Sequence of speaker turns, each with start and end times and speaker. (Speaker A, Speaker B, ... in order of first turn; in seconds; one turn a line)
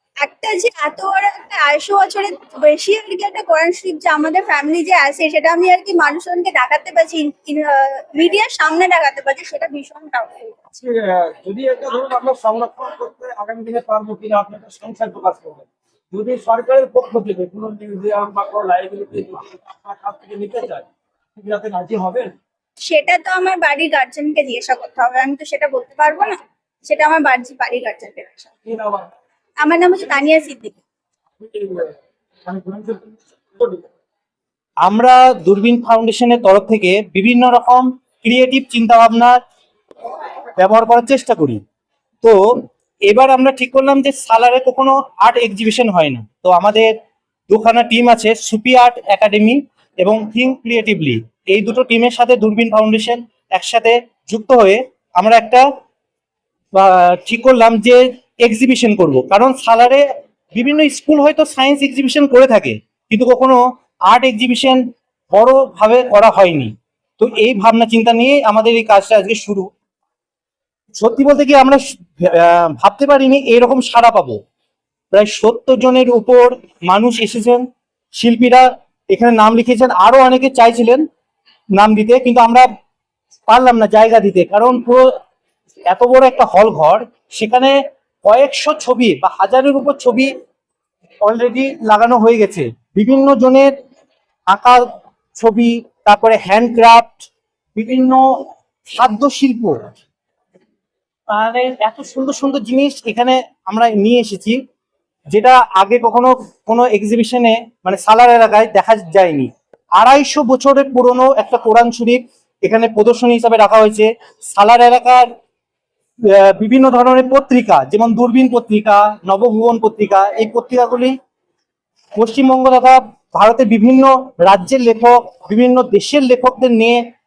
Speaker A: 0.2-10.6
Speaker B: 10.7-20.9
Speaker B: 21.4-22.3
Speaker A: 22.9-28.5
Speaker B: 28.6-29.1
Speaker A: 29.6-30.8
Speaker B: 31.4-33.9
Speaker C: 34.9-39.4
Speaker C: 40.6-41.6
Speaker C: 43.1-46.9
Speaker C: 47.5-55.7
Speaker C: 56.8-64.8
Speaker C: 65.3-69.7
Speaker C: 71.0-74.4
Speaker C: 75.1-77.7
Speaker C: 78.2-81.0
Speaker C: 81.8-82.7
Speaker C: 83.5-85.1
Speaker C: 85.9-90.3
Speaker C: 91.2-93.7
Speaker C: 94.5-94.8
Speaker C: 95.4-98.3
Speaker C: 99.0-99.8
Speaker C: 101.3-104.6
Speaker C: 105.3-115.3
Speaker C: 116.3-121.1
Speaker C: 122.2-127.0